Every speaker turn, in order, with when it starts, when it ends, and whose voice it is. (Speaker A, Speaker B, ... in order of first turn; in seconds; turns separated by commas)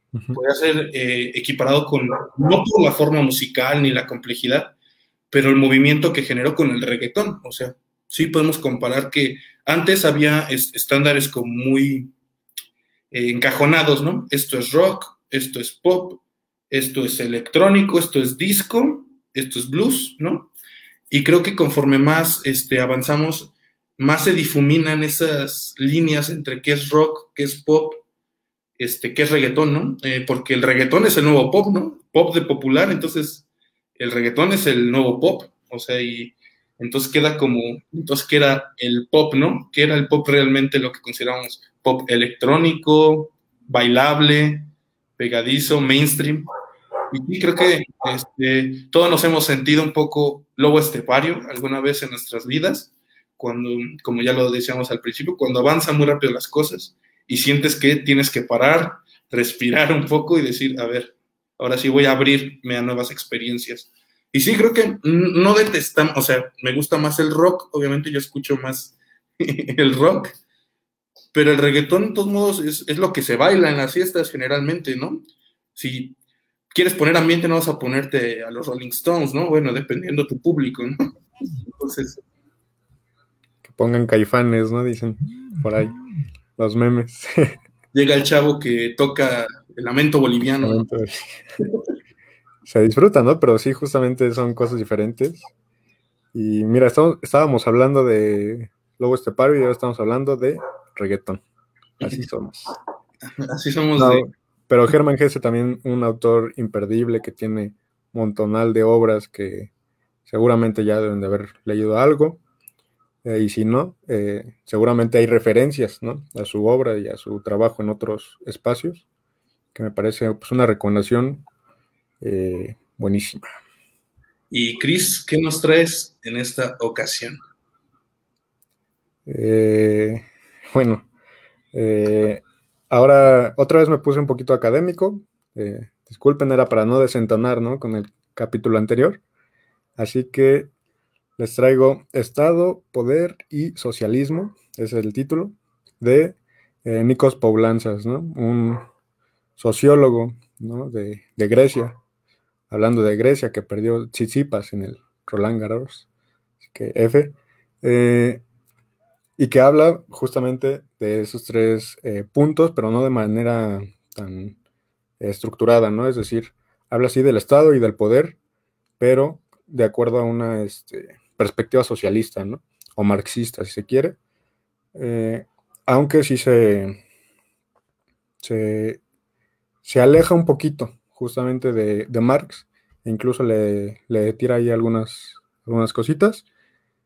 Speaker A: 0.3-4.8, Speaker A: 5.3-12.1, Speaker A: 13.1-20.5, Speaker A: 21.1-28.0, Speaker A: 28.8-33.5, Speaker A: 34.0-46.5, Speaker A: 47.1-70.3, Speaker A: 71.3-75.2, Speaker A: 75.8-76.2, Speaker A: 76.7-81.1, Speaker A: 81.7-82.2, Speaker B: 83.6-86.0, Speaker B: 86.6-87.5, Speaker A: 87.9-90.9, Speaker B: 90.6-91.4, Speaker B: 92.6-95.5, Speaker B: 96.3-101.4, Speaker B: 102.0-102.7, Speaker A: 103.4-104.2, Speaker B: 104.0-109.7, Speaker B: 110.3-112.4, Speaker B: 113.2-119.0, Speaker B: 119.7-121.4, Speaker B: 122.2-123.5, Speaker A: 124.5-127.4, Speaker B: 129.2-131.1, Speaker B: 131.7-139.2, Speaker B: 140.0-140.7, Speaker B: 141.4-148.9, Speaker B: 149.6-152.0, Speaker B: 152.7-156.1, Speaker B: 156.7-158.4, Speaker B: 159.4-164.6, Speaker B: 165.2-168.4, Speaker B: 169.0-174.2, Speaker B: 174.9-177.0, Speaker B: 178.4-179.0, Speaker B: 179.8-186.4